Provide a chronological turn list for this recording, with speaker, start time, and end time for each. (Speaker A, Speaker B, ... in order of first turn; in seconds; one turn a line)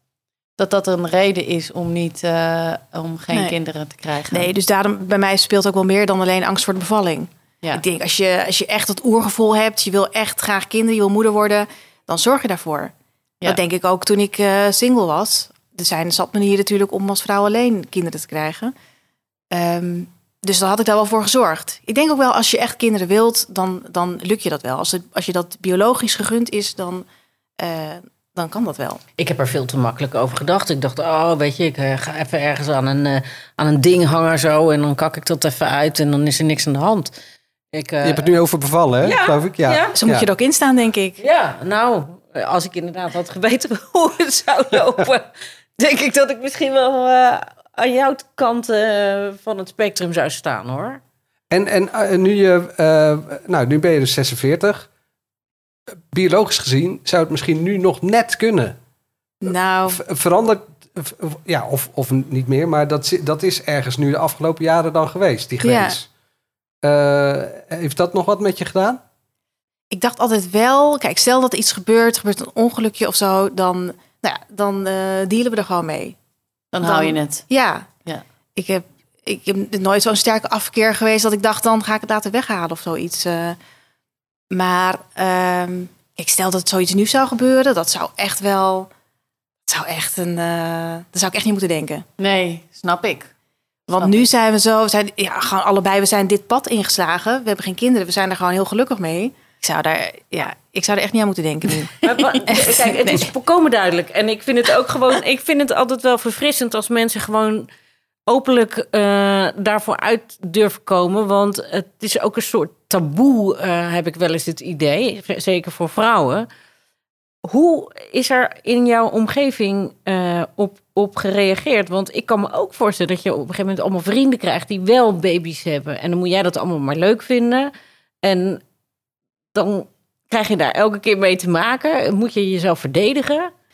Speaker A: 0.6-4.5
Speaker B: 4.3-12.9
Speaker B: 13.4-18.7
Speaker B: 19.5-27.1
Speaker B: 27.6-29.0
Speaker C: 29.2-37.1
Speaker C: 37.7-38.3
Speaker D: 38.0-40.3
Speaker C: 39.0-40.0
Speaker B: 40.0-41.2
Speaker C: 41.2-51.0
Speaker D: 51.5-54.9
Speaker D: 56.1-58.8
Speaker B: 59.4-60.0
Speaker D: 59.9-66.1
Speaker B: 65.6-66.0
Speaker D: 66.8-69.0
Speaker B: 69.9-76.2
Speaker A: 76.7-77.5
Speaker B: 76.8-77.9
Speaker B: 78.6-83.6
Speaker B: 84.5-88.9
Speaker B: 89.7-92.0
Speaker A: 92.2-93.3
Speaker B: 93.9-102.0
Speaker A: 94.0-94.2
Speaker C: 102.0-107.7
Speaker B: 102.5-103.3
Speaker C: 108.3-116.5
Speaker C: 117.5-127.7
Speaker C: 128.2-128.6
Speaker C: 129.5-133.5